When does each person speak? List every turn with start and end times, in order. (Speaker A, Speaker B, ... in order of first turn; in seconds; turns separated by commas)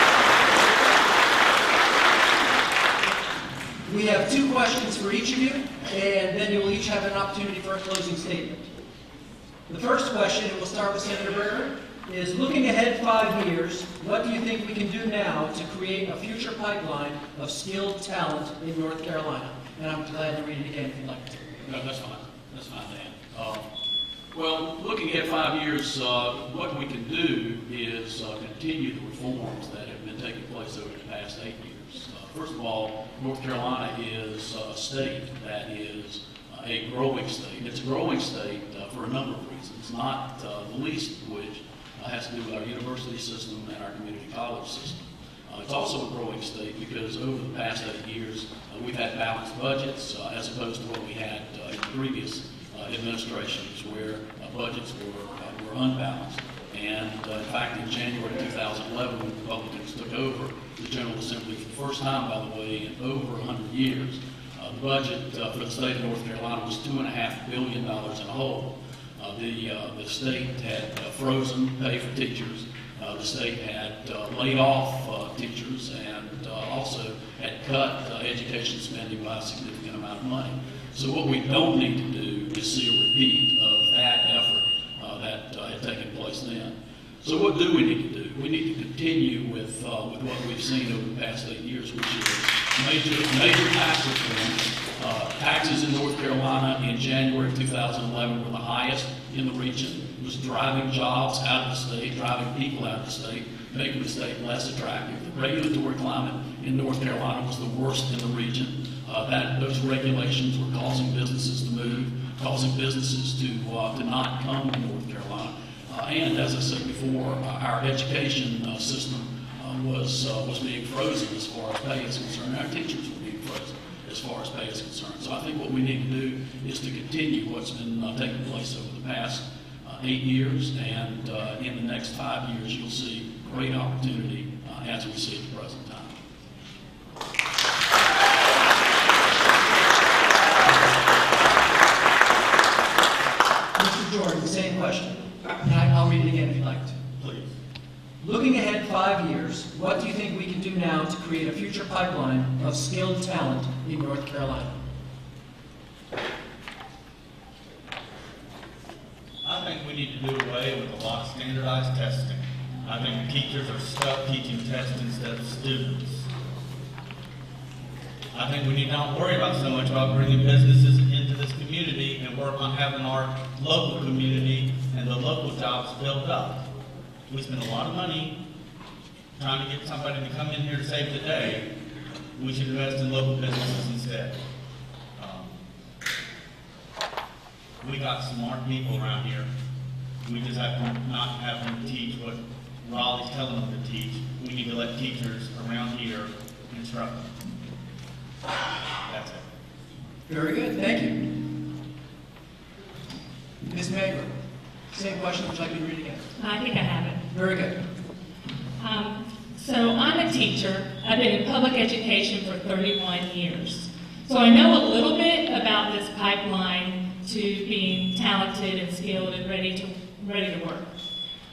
Speaker A: 3.8-8.7, Speaker A: 9.7-21.6, Speaker B: 21.6-23.6, Speaker B: 24.3-136.2, Speaker A: 143.8-146.9, Speaker C: 147.2-147.5, Speaker A: 148.2-154.8, Speaker C: 159.4-166.3, Speaker C: 168.3-176.6, Speaker C: 177.3-178.4, Speaker C: 179.4-181.7, Speaker C: 182.4-184.3, Speaker C: 185.2-185.6, Speaker C: 187.8-189.5, Speaker C: 190.2-197.3, Speaker C: 199.1-199.4, Speaker A: 200.3-201.5, Speaker A: 203.6-204.3, Speaker A: 204.9-206.3, Speaker D: 206.4-207.3, Speaker A: 207.3-207.8, Speaker D: 208.8-220.9